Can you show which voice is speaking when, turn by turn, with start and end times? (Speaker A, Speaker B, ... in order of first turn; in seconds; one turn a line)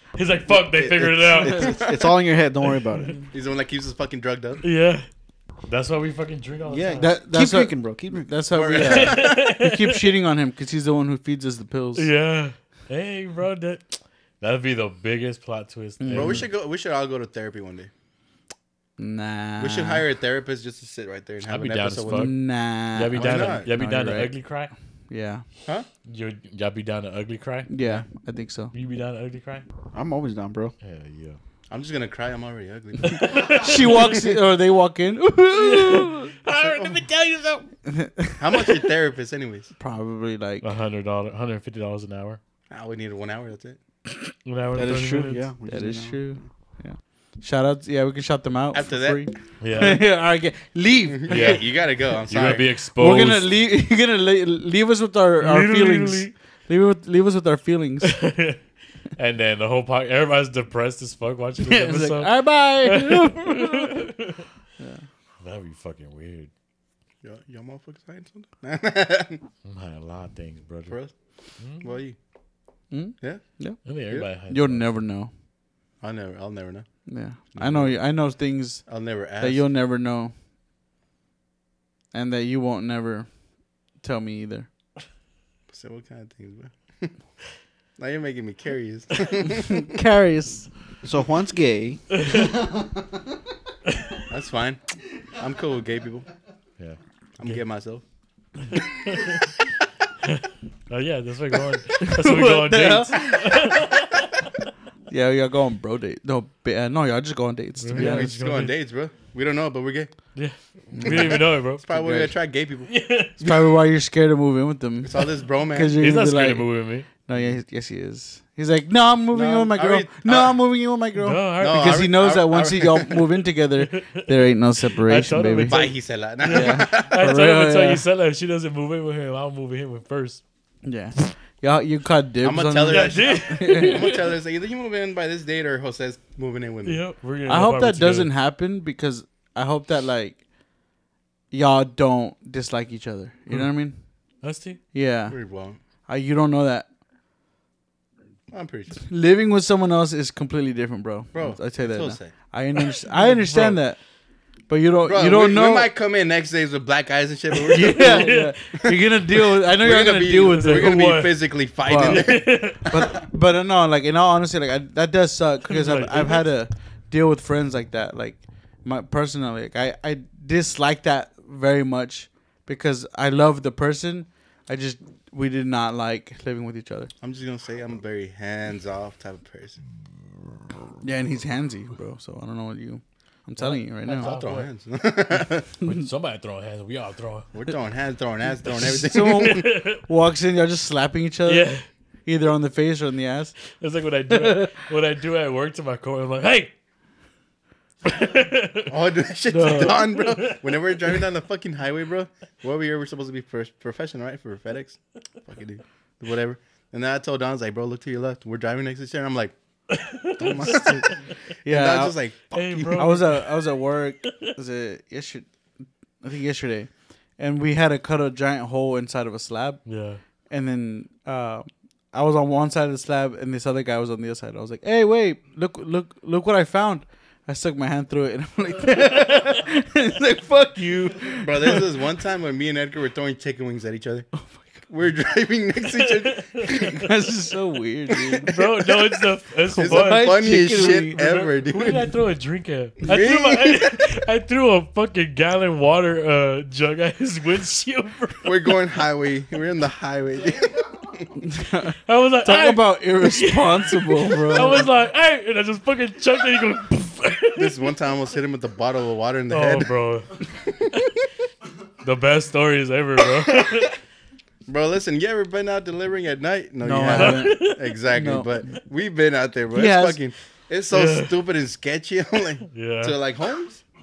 Speaker A: 0.1-1.8
Speaker B: 0.5-3.2
Speaker C: 1.4-2.1
Speaker C: 3.3-4.6
Speaker A: 4.6-5.1
Speaker A: 5.7-7.1
Speaker B: 6.7-8.3
Speaker D: 7.0-12.1
Speaker C: 8.5-9.5
Speaker A: 8.7-10.1
Speaker A: 11.9-16.5
Speaker D: 16.0-16.4
Speaker C: 16.1-17.9
Speaker D: 19.0-20.0
Speaker C: 19.6-22.3
Speaker A: 21.4-22.4
Speaker D: 22.1-24.4
Speaker A: 22.9-24.7
Speaker C: 23.1-23.7
Speaker D: 25.1-25.4
Speaker A: 26.1-27.7
Speaker D: 27.7-28.7
Speaker A: 28.7-29.6
Speaker B: 29.9-30.7
Speaker A: 30.8-31.4
Speaker C: 31.7-34.0
Speaker A: 33.0-34.1
Speaker D: 33.5-36.3
Speaker A: 35.5-37.6
Speaker C: 36.5-37.0
Speaker D: 37.8-38.8
Speaker C: 38.4-39.7
Speaker D: 39.8-40.7
Speaker A: 40.6-42.4
Speaker C: 42.7-43.8
Speaker A: 44.4-45.5
Speaker B: 44.7-46.2
Speaker D: 45.7-51.5
Speaker C: 48.7-49.3
Speaker A: 49.6-50.0
Speaker C: 51.1-52.6
Speaker A: 51.3-53.5
Speaker D: 52.9-58.1
Speaker A: 55.4-56.3
Speaker A: 58.0-58.6
Speaker A: 59.1-64.4
Speaker D: 61.6-64.1
Speaker D: 64.8-65.0
Speaker A: 65.4-66.5
Speaker C: 67.2-69.4
Speaker A: 69.7-71.0
Speaker A: 71.6-71.9
Speaker C: 71.8-72.2
Speaker D: 72.9-75.3
Speaker A: 73.8-74.9
Speaker C: 76.0-76.9
Speaker D: 77.1-78.9
Speaker C: 77.5-78.0
Speaker C: 78.9-79.7
Speaker D: 79.4-80.3
Speaker D: 82.1-83.3
Speaker D: 84.0-84.7
Speaker C: 85.7-87.1
Speaker C: 88.0-89.9
Speaker D: 89.8-90.7
Speaker B: 91.0-93.1
Speaker A: 92.2-92.5
Speaker A: 94.0-94.2
Speaker C: 94.3-94.8
Speaker C: 95.3-96.3
Speaker A: 96.8-97.6
Speaker C: 97.4-98.0
Speaker A: 98.7-99.5
Speaker A: 100.2-104.5
Speaker D: 102.0-103.8
Speaker D: 105.1-108.3
Speaker A: 107.8-108.8
Speaker C: 107.9-110.1
Speaker A: 110.3-112.2
Speaker D: 110.9-111.3
Speaker C: 111.0-112.9
Speaker D: 112.0-112.3
Speaker A: 112.9-113.5
Speaker D: 113.4-116.7
Speaker C: 115.0-116.0
Speaker A: 116.0-117.1
Speaker D: 117.2-125.9
Speaker C: 119.3-120.6
Speaker A: 121.2-122.0
Speaker C: 121.6-123.3
Speaker A: 123.8-124.3
Speaker A: 124.9-130.4
Speaker C: 125.7-127.1
Speaker D: 126.4-128.0
Speaker D: 130.8-134.1
Speaker C: 132.4-137.0
Speaker A: 132.9-134.4
Speaker A: 136.8-138.3
Speaker D: 137.5-140.4
Speaker D: 141.5-144.0
Speaker A: 144.4-144.8
Speaker D: 144.9-145.4
Speaker C: 145.3-145.8
Speaker D: 146.1-146.9
Speaker C: 148.5-149.0
Speaker D: 149.1-154.0
Speaker C: 151.3-152.3
Speaker A: 153.1-153.8
Speaker D: 154.7-155.9
Speaker C: 155.0-163.2
Speaker A: 157.7-158.6
Speaker D: 157.7-161.0
Speaker A: 160.5-163.0
Speaker D: 161.8-177.1
Speaker A: 165.7-166.4
Speaker C: 177.2-179.8
Speaker D: 181.0-184.3
Speaker A: 183.6-184.7
Speaker C: 184.1-185.8
Speaker A: 185.4-187.5
Speaker D: 185.8-186.1
Speaker C: 187.5-189.7
Speaker D: 188.8-191.7
Speaker A: 189.4-190.0
Speaker A: 191.4-191.8
Speaker D: 192.2-193.6
Speaker A: 193.8-196.7
Speaker D: 194.3-194.7
Speaker A: 198.0-199.1
Speaker C: 198.9-209.5
Speaker D: 199.5-200.1
Speaker A: 199.6-201.1
Speaker A: 209.9-211.2
Speaker C: 210.4-213.1
Speaker D: 211.6-212.2
Speaker A: 212.5-213.5
Speaker D: 212.9-215.5
Speaker A: 214.2-214.5
Speaker D: 216.2-219.8
Speaker A: 219.9-220.2
Speaker D: 220.5-231.9
Speaker C: 231.4-234.3
Speaker C: 234.9-237.0
Speaker A: 235.9-236.9
Speaker D: 236.8-238.6
Speaker A: 238.4-248.7
Speaker D: 239.7-241.2
Speaker C: 239.8-242.1
Speaker C: 243.0-244.1
Speaker C: 248.4-251.3
Speaker D: 251.4-254.8
Speaker A: 252.1-257.9
Speaker C: 257.6-259.9
Speaker A: 259.5-260.4
Speaker A: 262.0-264.0
Speaker C: 264.7-273.8
Speaker D: 266.8-268.6
Speaker A: 267.1-268.0
Speaker D: 269.7-270.2
Speaker A: 270.9-271.4
Speaker A: 272.7-273.2